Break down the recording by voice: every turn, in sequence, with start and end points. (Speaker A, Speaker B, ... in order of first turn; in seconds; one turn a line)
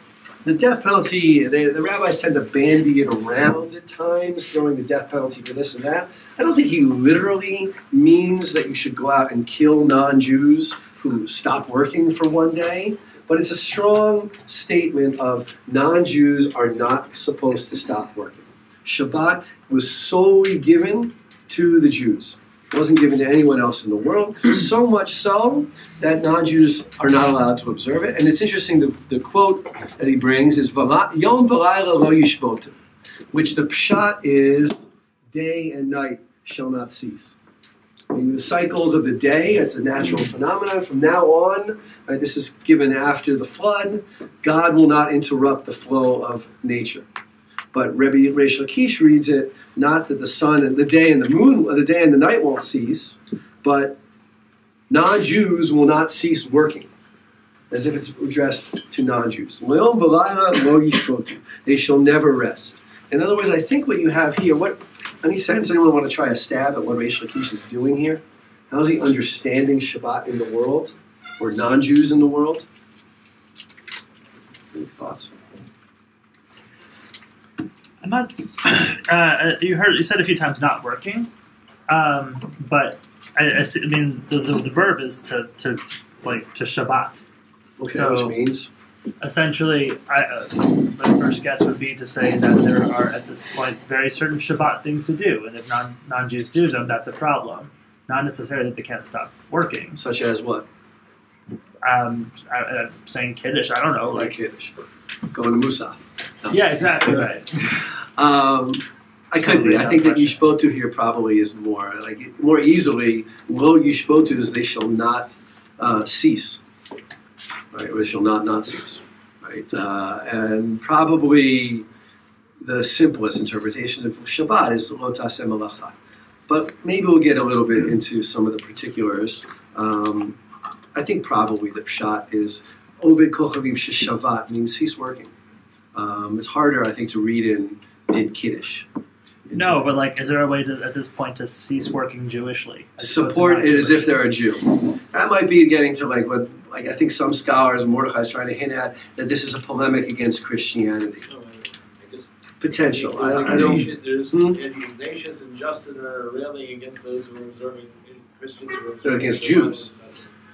Speaker A: 0.4-32.8
Speaker A: 33.3-34.8
Speaker A: 35.3-37.4
Speaker A: 38.1-47.1
Speaker A: 47.7-54.0
Speaker A: 54.9-56.9
Speaker A: 57.7-72.7
Speaker A: 74.7-75.4
Speaker B: 78.0-81.3
Speaker B: 81.9-87.2
Speaker A: 87.8-88.7
Speaker B: 87.9-88.4
Speaker B: 89.2-100.0
Speaker A: 100.0-100.7
Speaker B: 101.8-104.4
Speaker A: 104.0-104.7
Speaker A: 105.3-116.6
Speaker B: 106.5-107.6
Speaker B: 109.4-110.5
Speaker A: 117.7-121.8
Speaker A: 122.6-126.0
Speaker A: 126.5-130.4
Speaker A: 130.9-135.3
Speaker A: 135.9-138.9
Speaker A: 139.5-139.9
Speaker B: 139.5-144.2
Speaker A: 143.0-151.3
Speaker C: 151.3-160.3
Speaker A: 152.6-154.6
Speaker A: 159.0-159.9